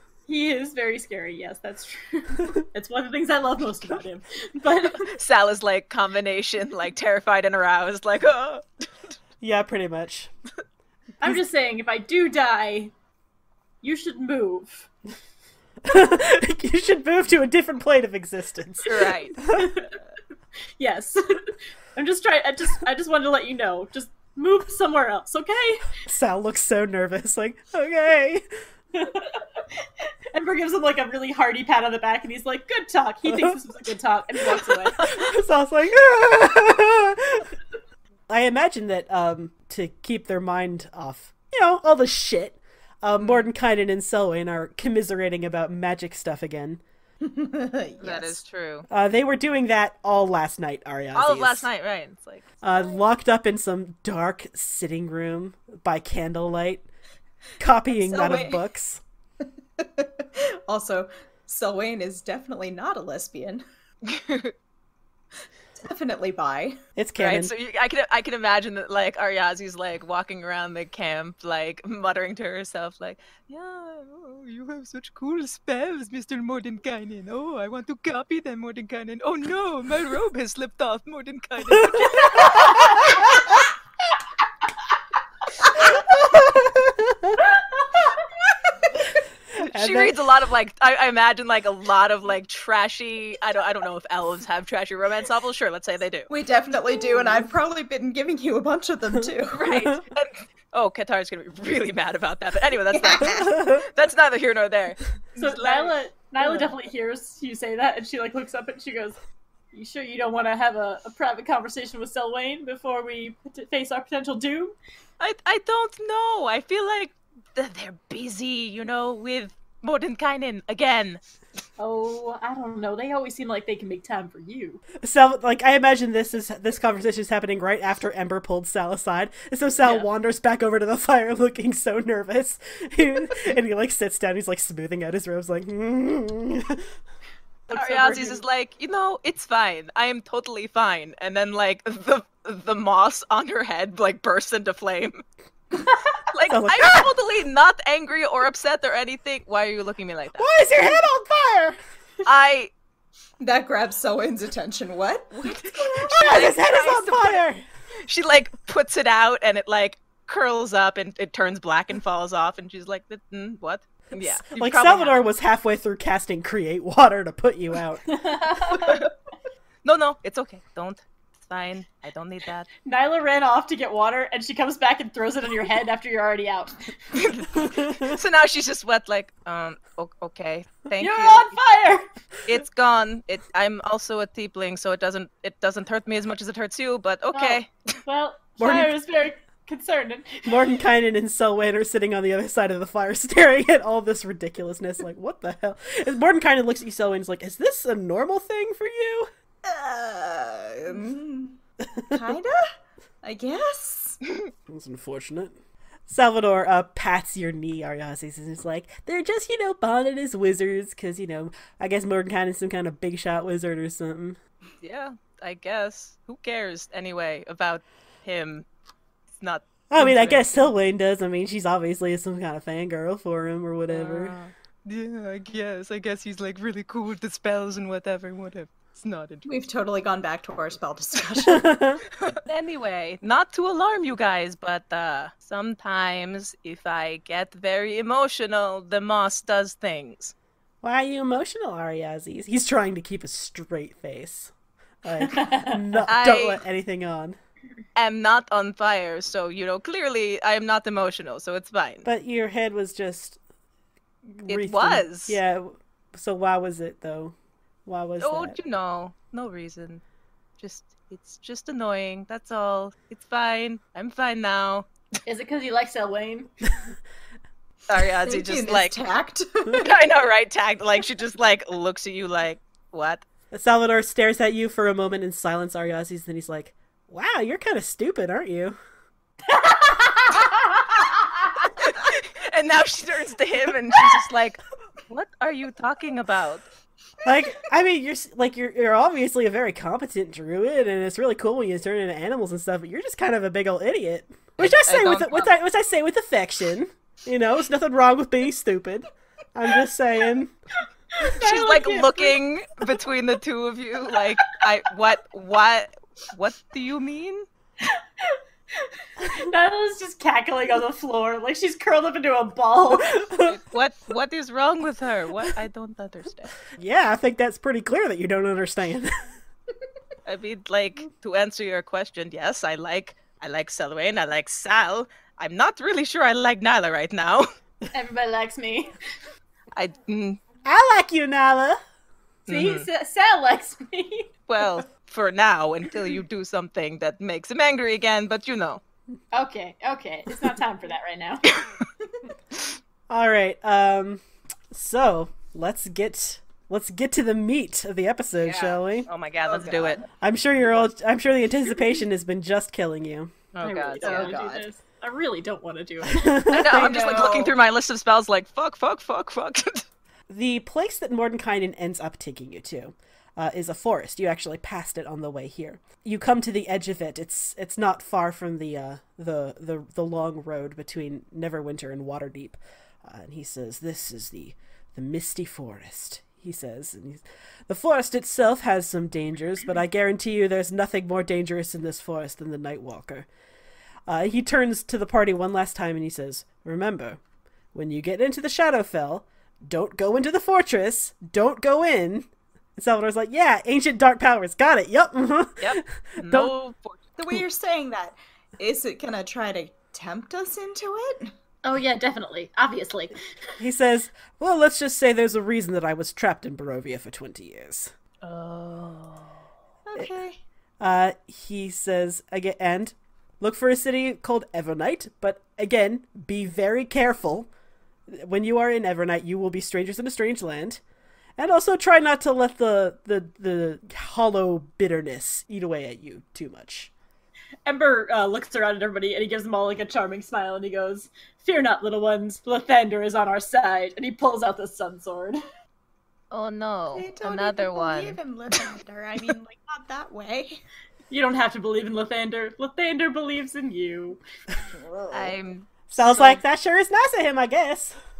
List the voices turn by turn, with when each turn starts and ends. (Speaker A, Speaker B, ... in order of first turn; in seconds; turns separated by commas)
Speaker A: 0.3-5.1, Speaker B: 5.0-8.9, Speaker C: 9.4-10.3, Speaker A: 11.2-12.9, Speaker A: 13.8-14.9, Speaker C: 15.8-19.8, Speaker B: 18.8-19.4, Speaker A: 19.5-20.0, Speaker A: 20.8-26.0, Speaker C: 26.0-28.4, Speaker A: 28.9-35.2, Speaker C: 33.2-33.6, Speaker C: 34.5-37.5, Speaker C: 38.3-46.8, Speaker D: 47.2-48.4, Speaker B: 48.0-48.9, Speaker C: 48.9-51.7, Speaker B: 51.1-53.0, Speaker C: 52.6-56.9, Speaker C: 57.6-59.0, Speaker D: 57.9-58.6, Speaker D: 59.8-63.6, Speaker B: 64.0-64.5, Speaker D: 65.8-66.8, Speaker C: 67.0-67.5, Speaker B: 67.2-83.2, Speaker C: 86.2-87.4, Speaker D: 88.1-89.1, Speaker C: 89.6-90.2, Speaker B: 89.6-96.3, Speaker D: 96.3-99.7, Speaker B: 99.5-105.9, Speaker C: 99.7-100.0, Speaker D: 102.9-103.5, Speaker C: 103.2-103.8, Speaker A: 105.4-109.2, Speaker A: 109.7-114.8, Speaker B: 115.2-121.2, Speaker A: 121.8-124.8, Speaker C: 125.0-136.9, Speaker B: 129.8-130.1, Speaker A: 137.7-138.4, Speaker B: 137.7-145.2, Speaker B: 146.3-150.5, Speaker C: 146.5-147.1, Speaker C: 150.4-151.8, Speaker B: 152.2-152.7, Speaker D: 153.4-156.5, Speaker B: 155.3-157.4, Speaker C: 156.1-157.6, Speaker B: 158.0-165.3, Speaker C: 164.1-168.1, Speaker A: 168.1-169.1, Speaker B: 169.8-172.7, Speaker A: 172.8-176.9, Speaker B: 177.1-181.5, Speaker C: 177.7-178.2, Speaker A: 181.0-182.1, Speaker B: 182.4-187.9, Speaker A: 187.3-190.6, Speaker C: 188.6-188.9, Speaker C: 190.4-199.3, Speaker D: 199.6-202.7, Speaker D: 203.2-204.2, Speaker C: 204.7-214.4, Speaker B: 214.8-218.7, Speaker B: 219.3-220.7, Speaker C: 219.9-224.3, Speaker B: 223.9-229.4, Speaker D: 229.4-231.8, Speaker C: 231.5-232.0, Speaker B: 232.4-240.3, Speaker C: 240.8-244.5, Speaker C: 245.0-247.4, Speaker A: 245.2-246.0, Speaker B: 246.1-246.6, Speaker B: 247.9-252.1, Speaker C: 252.0-253.4, Speaker C: 254.3-257.3, Speaker B: 254.5-255.4, Speaker C: 257.9-258.6, Speaker B: 258.2-260.0, Speaker B: 260.6-264.9, Speaker A: 265.2-266.5, Speaker B: 267.9-269.0, Speaker D: 268.2-269.9, Speaker B: 269.7-273.2, Speaker C: 273.5-278.8, Speaker A: 279.5-280.8, Speaker B: 281.7-286.6, Speaker C: 287.2-300.5, Speaker B: 294.6-295.5, Speaker A: 301.1-302.4, Speaker B: 301.4-307.5, Speaker A: 307.8-313.2, Speaker C: 313.0-313.6, Speaker B: 313.4-316.6, Speaker C: 316.8-319.2, Speaker B: 320.2-327.5, Speaker A: 327.9-328.9, Speaker B: 329.7-330.4, Speaker C: 330.6-331.8, Speaker B: 332.5-332.9, Speaker A: 332.5-334.3, Speaker B: 334.5-338.8, Speaker A: 339.3-341.6, Speaker C: 343.1-349.1, Speaker B: 348.4-350.0, Speaker D: 349.5-350.1, Speaker C: 350.2-353.3, Speaker B: 353.5-354.3, Speaker A: 353.6-356.6, Speaker D: 354.0-354.7, Speaker C: 356.1-357.2, Speaker B: 356.5-359.8, Speaker D: 356.7-357.6, Speaker C: 360.3-383.3, Speaker C: 384.1-387.2, Speaker C: 387.7-396.5, Speaker B: 395.6-397.0, Speaker D: 397.2-401.3, Speaker A: 401.6-403.2, Speaker C: 403.6-407.9, Speaker B: 408.2-409.4, Speaker D: 409.9-410.4, Speaker C: 410.8-417.5, Speaker C: 418.1-420.8, Speaker C: 421.4-426.9, Speaker A: 427.6-435.4, Speaker B: 436.3-438.2, Speaker D: 436.9-440.6, Speaker A: 441.1-444.2, Speaker D: 444.7-445.4, Speaker B: 445.1-446.4, Speaker C: 445.9-447.9